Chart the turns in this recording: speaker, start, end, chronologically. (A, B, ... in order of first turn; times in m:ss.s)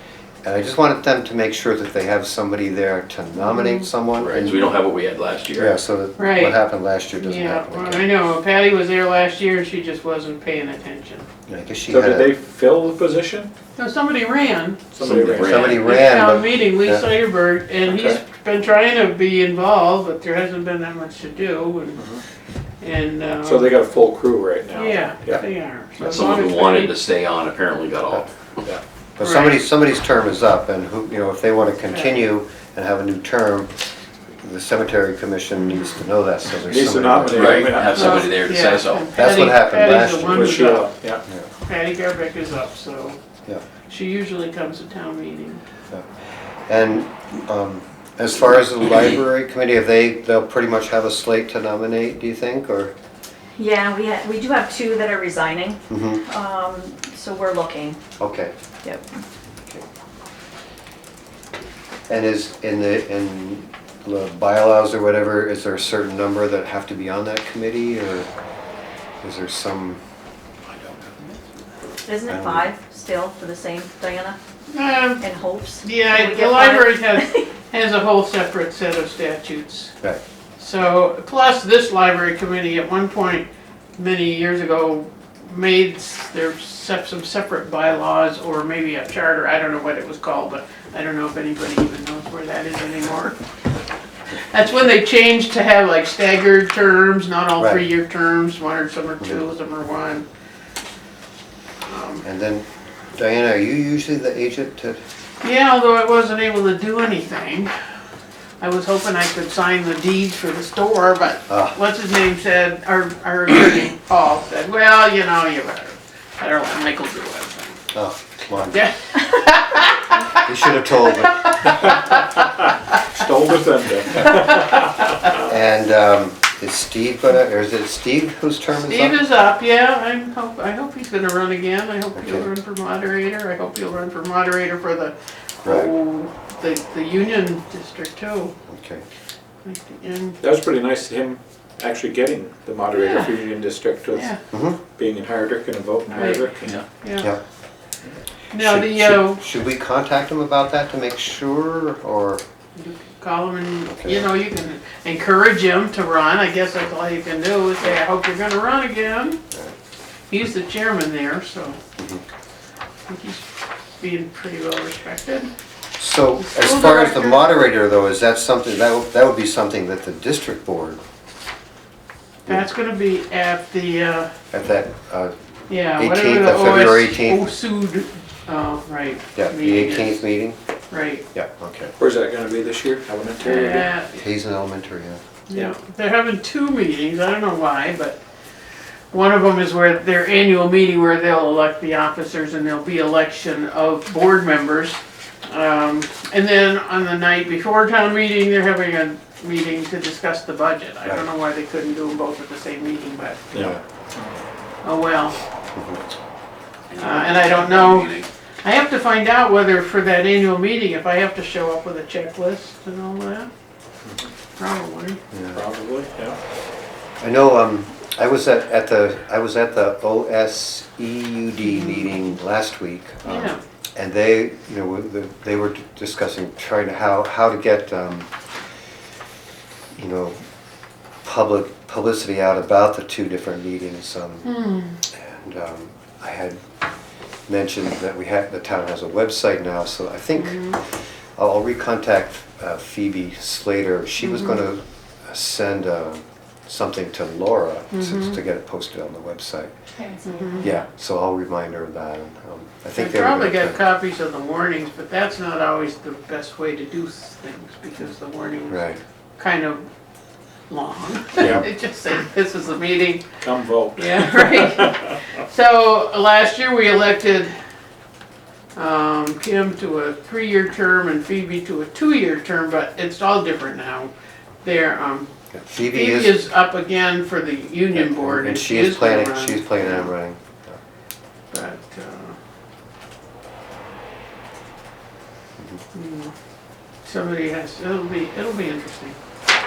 0:00.4-0:04.7 A
0:03.5-0:03.8 B
0:04.2-0:05.8 C
0:05.5-0:08.1 A
0:06.2-0:06.6 B
0:07.2-0:11.3 B
0:11.5-0:12.3 A
0:11.9-0:13.5 D
0:13.8-0:14.8 B
0:14.9-0:15.8 D
0:15.0-0:15.8 C
0:15.4-0:17.1 A
0:15.5-0:22.0 B
0:17.9-0:18.2 C
0:22.0-0:22.2 D
0:22.8-0:23.8 B
0:23.4-0:25.4 D
0:24.7-0:26.9 B
0:26.0-0:28.3 C
0:29.2-0:33.7 A
0:29.2-0:29.6 B
0:31.9-0:32.2 B
0:34.4-0:37.8 A
0:36.6-0:38.2 D
0:37.4-0:39.1 C
0:37.9-0:40.9 B
0:39.1-0:40.6 A
0:40.3-0:41.2 D
0:41.6-0:43.2 B
0:43.9-0:45.6 B
0:46.7-0:52.9 A
0:53.6-0:58.0 E
0:55.9-0:56.2 A
0:58.2-0:58.5 A
1:02.1-1:08.3 A
1:09.2-1:10.0 A
1:12.0-1:14.4 E
1:12.2-1:12.7 A
1:14.7-1:15.2 B
1:15.2-1:17.4 E
1:15.8-1:19.9 B
1:20.6-1:23.4 B
1:24.0-1:33.4 B
1:34.3-1:40.2 B
1:37.6-1:37.8 A
1:41.8-1:42.2 B
1:42.2-1:45.0 A
1:45.4-1:47.7 B
1:48.6-1:57.8 B
1:51.5-1:51.7 A
1:57.9-1:58.8 A
1:58.7-2:00.4 B
2:00.4-2:01.6 A
2:01.0-2:03.0 B
2:02.1-2:02.5 D
2:03.1-2:05.1 D
2:05.3-2:09.3 A
2:08.7-2:18.6 B
2:12.1-2:12.5 A
2:15.6-2:15.9 A
2:18.7-2:19.0 A
2:19.6-2:20.4 B
2:20.4-2:24.3 D
2:22.9-2:23.4 B
2:24.1-2:24.4 B
2:24.5-2:24.8 A
2:24.9-2:26.8 D
2:26.1-2:27.3 B
2:28.5-2:29.4 B
2:28.5-2:32.4 A
2:32.7-2:39.4 B
2:40.3-2:41.8 B
2:42.0-2:42.2 A
2:43.1-2:43.5 B
2:44.0-2:45.5 B
2:46.0-2:51.0 A
2:46.4-2:47.5 B
2:52.4-2:54.3 B
2:54.5-2:57.5 A
2:55.7-3:00.2 B
2:59.3-3:00.6 A
3:00.9-3:01.2 B
3:01.3-3:01.9 A
3:02.0-3:03.9 D
3:03.4-3:04.2 B
3:04.2-3:05.2 A
3:05.5-3:08.2 B
3:09.1-3:23.5 B
3:23.5-3:24.3 D
3:24.8-3:25.4 B
3:25.8-3:26.0 A
3:27.0-3:33.5 B
3:34.6-3:35.2 B
3:35.3-3:35.6 A
3:35.5-3:36.4 D
3:37.2-3:48.3 A
3:41.6-3:42.1 B
3:43.2-3:43.6 B
3:50.0-3:50.4 A
3:51.2-3:56.6 A
3:54.4-3:55.0 B
3:57.5-4:09.7 A
4:00.3-4:00.8 B
4:04.2-4:04.6 B
4:07.9-4:08.4 B
4:10.0-4:10.6 E
4:10.2-4:10.7 B
4:10.6-4:13.8 A
4:12.9-4:19.8 B
4:18.7-4:19.0 A
4:20.7-4:23.2 B
4:21.4-4:21.6 D
4:21.4-4:21.6 A
4:23.4-4:25.2 D
4:24.0-4:27.5 B
4:28.7-4:34.1 B
4:34.6-4:35.3 B
4:35.5-4:36.4 A
4:35.8-4:40.1 B
4:37.9-4:40.8 A
4:41.5-4:42.4 B
4:45.9-4:46.3 B
4:47.0-4:49.2 B